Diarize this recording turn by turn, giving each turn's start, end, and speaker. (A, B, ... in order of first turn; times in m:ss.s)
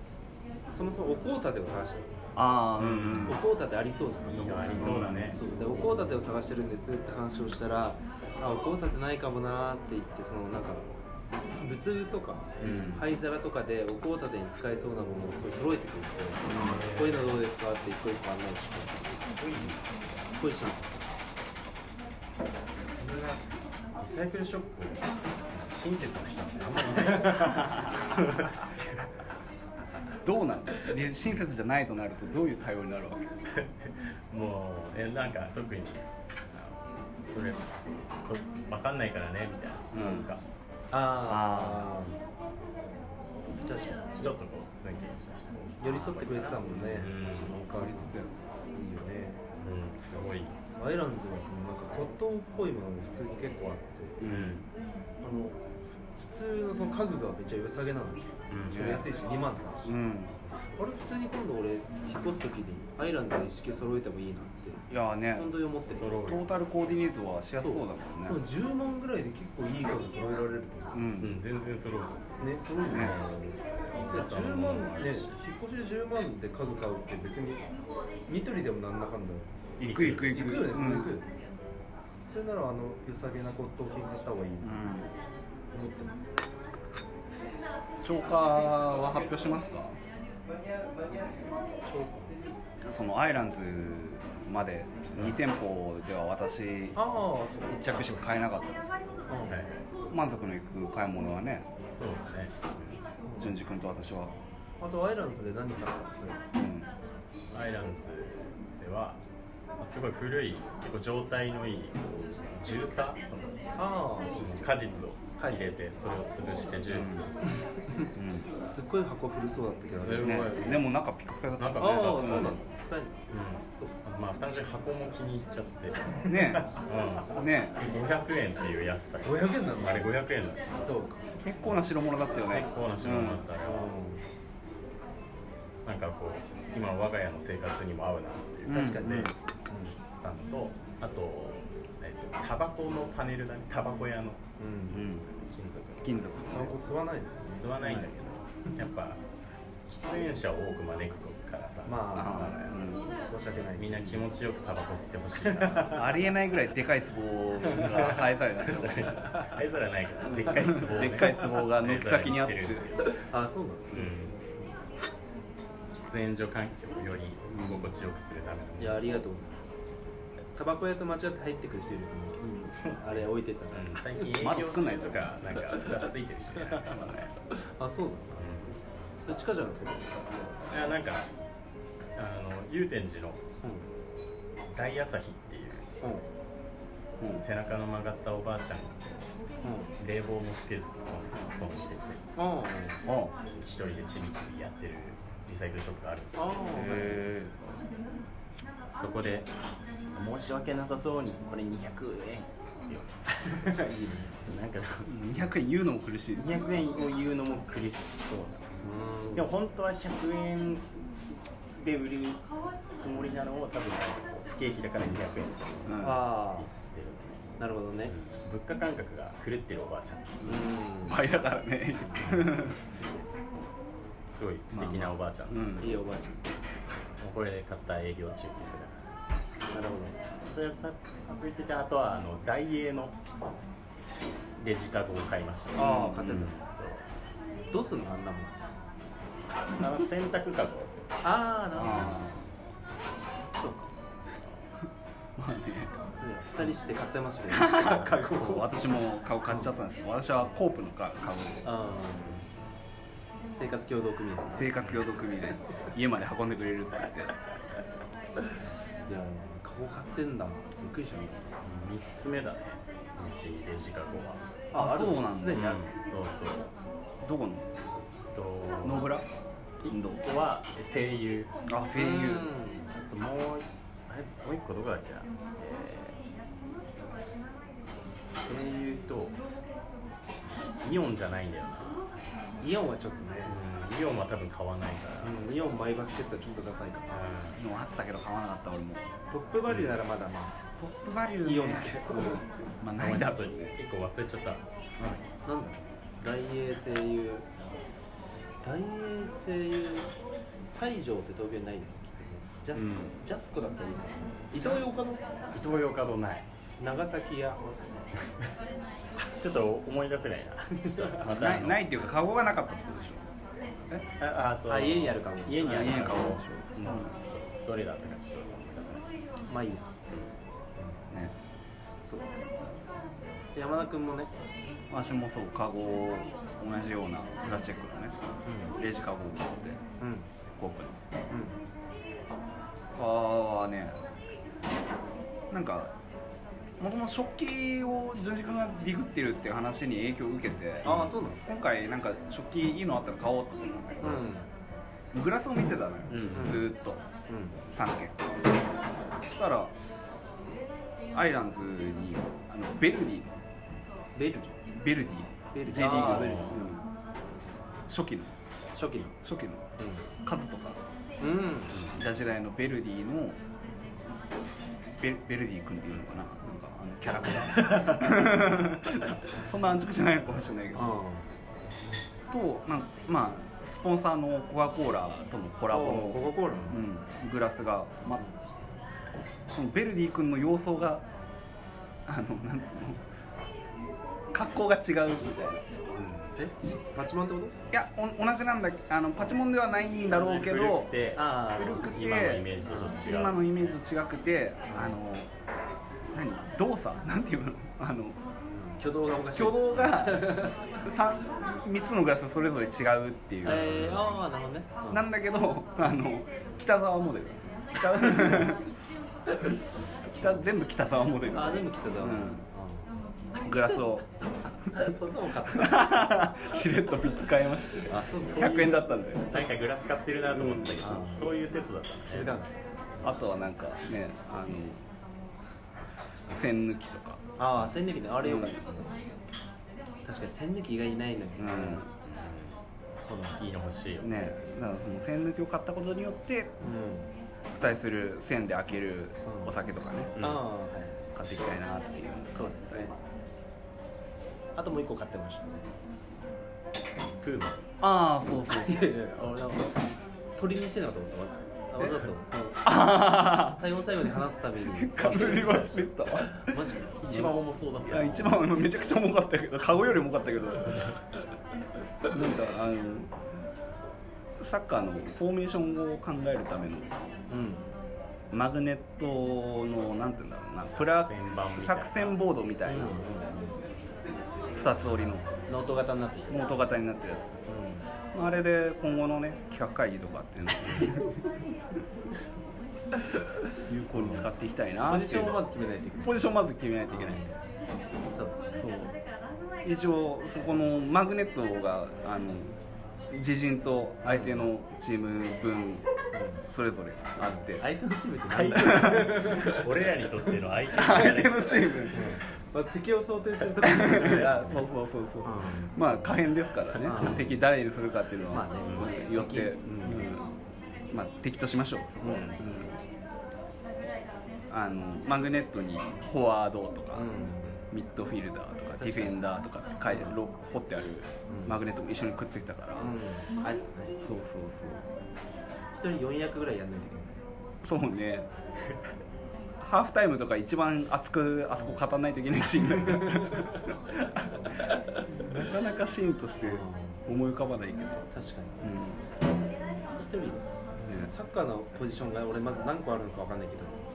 0:00.7-0:02.1 A
0:02.4-0:03.4 B
0:02.8-0:03.4 C
0:03.2-0:11.0 A
0:04.2-0:05.4 C
0:04.8-0:05.4 B
0:11.5-0:19.2 A
0:12.6-0:13.0 C
0:12.6-0:13.0 B
0:16.4-0:16.9 B
0:16.4-0:17.4 C
0:19.0-0:20.0 C
0:20.3-0:21.1 A
0:22.7-0:29.0 C
0:30.2-0:33.4 B
0:33.4-0:40.4 C
0:39.9-0:40.3 B
0:40.9-0:42.2 A
0:41.2-0:41.9 B
0:43.6-0:44.3 A
0:44.2-0:47.6 C
0:45.8-0:49.4 A
0:47.8-0:48.3 B
0:49.6-0:50.6 C
0:50.7-0:54.3 A
0:54.2-0:54.6 B
0:54.2-0:54.7 C
0:55.2-0:55.6 A
0:56.2-1:00.0 A
0:58.5-0:59.0 C
0:58.7-0:59.1 B
0:59.8-1:00.4 B
1:00.8-1:06.1 A
1:04.9-1:05.5 B
1:05.9-1:06.5 C
1:06.2-1:08.4 B
1:07.6-1:11.0 A
1:10.9-1:11.4 B
1:11.2-1:12.3 C
1:12.4-1:17.7 A
1:12.9-1:15.4 C
1:12.9-1:13.2 B
1:18.3-1:19.5 A
1:19.8-1:20.4 C
1:19.9-1:21.2 B
1:20.2-1:21.3 A
1:22.3-1:24.8 A
1:24.6-1:25.1 B
1:25.7-1:26.2 A
1:28.0-1:30.0 B
1:31.8-1:32.4 A
1:32.8-1:37.0 B
1:36.9-1:38.0 A
1:37.6-1:39.1 B
1:39.3-1:39.6 A
1:39.5-1:39.9 C
1:40.1-1:41.7 B
1:41.9-1:43.0 C
1:43.2-1:43.6 A
1:43.4-1:44.3 B
1:44.8-1:46.4 A
1:46.5-1:46.9 B
1:47.5-1:49.2 C
1:49.8-1:53.6 C
1:53.8-1:54.6 A
1:54.3-1:57.6 C
1:56.9-1:57.3 B
1:57.5-1:58.1 A
1:58.1-1:58.5 B
1:58.6-2:00.5 A
1:59.9-2:00.9 C
2:00.2-2:02.6 B
2:01.6-2:02.6 C
2:01.8-2:03.2 A
2:03.3-2:10.9 C
2:06.3-2:06.7 B
2:07.3-2:07.8 B
2:09.2-2:10.1 A
2:10.8-2:11.2 A
2:11.4-2:13.4 B
2:12.3-2:13.8 C
2:13.6-2:14.2 A
2:15.8-2:19.3 C
2:18.7-2:19.3 B
2:18.7-2:20.0 A
2:20.2-2:24.4 C
2:24.6-2:25.0 A
2:24.9-2:25.3 B
2:24.9-2:26.2 C
2:26.0-2:26.8 B
2:26.5-2:28.1 A
2:27.5-2:29.2 C
2:29.9-2:32.7 C
2:31.8-2:32.5 A
2:32.1-2:33.1 B
2:33.3-2:34.3 A
2:33.8-2:36.2 C
2:35.4-2:36.0 A
2:35.9-2:39.2 B
2:37.7-2:43.2 C
2:40.2-2:42.8 B
2:40.6-2:41.4 A
2:43.0-2:44.1 A
2:43.9-2:44.4 C
2:44.0-2:44.6 B
2:46.0-2:49.2 C
2:47.5-2:47.9 B
2:48.8-2:49.6 A
2:50.5-2:54.3 A
2:52.6-2:57.1 C
2:54.4-2:55.3 B
2:56.9-2:57.3 B
2:57.5-3:00.6 A
2:58.3-2:58.8 C
3:00.7-3:01.3 C
3:02.2-3:03.4 C
3:04.7-3:06.0 C
3:07.2-3:07.4 B
3:07.3-3:09.3 C
3:09.6-3:09.9 A
3:09.9-3:12.2 C
3:12.4-3:13.0 A
3:13.0-3:13.3 B
3:13.4-3:17.5 C
3:16.3-3:17.3 A
3:16.9-3:17.8 B
3:18.9-3:19.5 C
3:20.1-3:23.8 C
3:23.3-3:24.5 A
3:24.4-3:25.1 C
3:25.0-3:26.5 B
3:26.4-3:28.8 C
3:28.8-3:29.5 A
3:29.3-3:31.1 C
3:31.7-3:40.7 C
3:35.9-3:36.2 B
3:36.0-3:36.7 A
3:37.6-3:38.1 A
3:40.4-3:41.2 A
3:41.1-3:42.8 B
3:42.0-3:42.3 A
3:42.2-3:42.8 C
3:42.9-3:43.2 A
3:44.3-3:45.8 C
3:44.7-3:45.9 B
3:45.8-3:46.4 A
3:47.2-3:49.1 C
3:49.7-3:50.2 A
3:50.4-3:53.2 C
3:54.6-3:57.0 C
3:55.7-3:56.5 A
3:57.7-3:58.6 A
3:59.7-4:01.2 C
4:01.2-4:02.2 A
4:01.8-4:02.4 B
4:03.6-4:03.8 A
4:05.4-4:05.9 B
4:06.2-4:08.8 A
4:07.5-4:11.6 B
4:11.6-4:12.4 A
4:13.5-4:14.8 A
4:14.5-4:17.5 B
4:14.8-4:15.0 C
4:19.1-4:21.5 A
4:21.6-4:24.5 C
4:24.7-4:25.8 A
4:24.7-4:25.9 B
4:25.5-4:26.7 C
4:27.2-4:27.7 B
4:28.3-4:29.2 C
4:28.8-4:29.2 B
4:29.8-4:31.5 C
4:29.9-4:30.2 B
4:31.7-4:32.5 B
4:31.9-4:32.9 A
4:33.0-4:36.2 C
4:38.4-4:39.4 C
4:40.8-4:42.0 C
4:42.6-4:43.5 A
4:43.4-4:45.4 C
4:45.2-4:47.2 A
4:47.1-4:47.6 C
4:47.5-4:49.0 B
4:49.3-4:50.6 A
4:49.7-4:50.0 C
4:50.8-4:53.7 B
4:51.4-4:52.5 A
4:53.0-4:54.6 C
4:55.3-4:57.5 A
4:58.6-5:00.1 A
5:00.6-5:05.3 A
5:02.7-5:03.2 C
5:05.5-5:06.5 C
5:06.8-5:08.1 A
5:09.3-5:12.1 C
5:10.8-5:11.2 A
5:11.3-5:13.2 B
5:14.2-5:19.5 C
5:14.7-5:16.3 A
5:15.6-5:17.1 B
5:19.5-5:19.9 A
5:22.0-5:22.3 A
5:23.5-5:24.3 A
5:24.9-5:28.2 B
5:28.4-5:28.7 A
5:28.7-5:29.8 B
5:30.0-5:30.3 A
5:30.5-5:31.0 B
5:31.3-5:31.6 A
5:32.9-5:34.0 B
5:35.5-5:35.9 B
5:36.8-5:44.2 B
5:40.8-5:41.1 C
5:40.8-5:41.4 A
5:44.0-5:44.5 A
5:45.1-5:47.0 B
5:46.1-5:46.6 C
5:46.3-5:46.6 A
5:47.3-5:47.6 A
5:47.7-5:48.5 B
5:49.2-5:49.7 B
5:51.1-5:53.3 B
5:54.1-5:54.5 A
5:54.6-5:56.8 B
5:55.5-5:56.6 A
5:55.7-5:56.6 C
5:57.9-5:58.3 B
5:58.7-5:59.1 A
5:59.1-5:59.7 B
5:59.8-6:00.0 A
6:00.2-6:00.8 B
6:01.2-6:01.8 A
6:01.7-6:02.0 C
6:01.9-6:03.4 B
6:04.9-6:10.9 B
6:07.6-6:08.0 A
6:10.7-6:11.2 A
6:12.3-6:18.2 B
6:15.7-6:16.8 A
6:19.5-6:21.0 B
6:22.0-6:23.0 B
6:24.3-6:26.0 B
6:26.0-6:26.3 C
6:26.3-6:27.6 A
6:27.7-6:30.9 B
6:30.0-6:33.4 C
6:31.1-6:32.0 A
6:31.5-6:35.3 B
6:32.7-6:33.0 A
6:34.7-6:35.0 A
6:36.1-6:38.2 B
6:38.5-6:40.6 A
6:39.3-6:44.1 B
6:43.4-6:45.0 A
6:43.5-6:44.1 C
6:44.9-6:48.7 B
6:50.1-6:52.4 B
6:51.3-6:52.9 A
6:53.4-6:54.1 B
6:54.7-6:54.9 B
6:54.7-6:55.9 A
6:55.5-6:59.4 B
6:57.9-6:58.8 A
6:58.0-7:02.3 C
7:00.3-7:01.0 B
7:00.8-7:01.3 A
7:02.1-7:02.5 A
7:03.0-7:04.8 B
7:06.3-7:07.2 B
7:07.4-7:08.9 A
7:08.2-7:08.6 B
7:10.0-7:11.8 A
7:11.4-7:11.9 B
7:12.0-7:12.6 C
7:13.0-7:13.4 A
7:13.4-7:14.1 C
7:14.0-7:16.5 B
7:16.6-7:17.1 A
7:17.5-7:20.1 B
7:19.2-7:19.5 A
7:20.2-7:20.4 C
7:20.2-7:21.0 A
7:21.1-7:23.0 B
7:22.3-7:22.9 A
7:24.6-7:25.8 A
7:27.2-7:27.6 C
7:27.8-7:29.0 B
7:28.4-7:29.8 A
7:29.2-7:29.6 C
7:30.4-7:32.7 A
7:32.6-7:33.6 B
7:33.3-7:35.5 A
7:34.7-7:37.3 B
7:35.0-7:35.9 C
7:36.3-7:37.3 A
7:37.0-7:38.5 C
7:37.8-7:40.9 B
7:42.0-7:43.1 B
7:44.4-7:46.9 B
7:47.3-7:47.7 A
7:48.3-7:53.2 B
7:50.6-7:52.2 C
7:52.6-7:53.7 A
7:54.5-7:55.3 B
7:55.5-7:56.5 A
7:56.3-7:57.4 B
7:57.5-7:57.8 A
7:58.1-8:01.5 B
8:03.7-8:05.4 B
8:03.9-8:04.2 A
8:04.8-8:07.4 A
8:06.0-8:07.2 B
8:08.1-8:08.4 A
8:08.5-8:09.0 B
8:09.6-8:12.6 B
8:13.1-8:15.8 B
8:14.0-8:14.5 A
8:16.1-8:16.4 A
8:16.5-8:17.7 B
8:17.2-8:19.6 A
8:18.3-8:22.2 C
8:18.6-8:19.3 B
8:20.7-8:22.1 B
8:21.9-8:24.6 A
8:23.6-8:30.3 B
8:23.9-8:24.6 C
8:25.2-8:26.1 A
8:26.8-8:27.4 A
8:28.3-8:30.1 A
8:30.9-8:32.8 B
8:32.0-8:32.4 A
8:32.0-8:32.4 C
8:34.5-8:37.1 B
8:36.9-8:37.6 A
8:37.7-8:42.9 B
8:38.8-8:39.2 A
8:39.9-8:40.1 A
8:41.3-8:41.6 A
8:42.8-8:44.0 A
8:44.0-8:44.9 B
8:45.7-8:47.2 A
8:47.6-8:48.3 B
8:49.6-8:54.3 B
8:52.9-8:53.5 A
8:54.3-8:55.0 A
8:55.1-8:58.1 B
8:56.4-8:57.0 A
8:58.1-8:58.7 A
8:58.6-8:59.0 B
8:59.9-9:03.8 A
9:00.8-9:01.1 B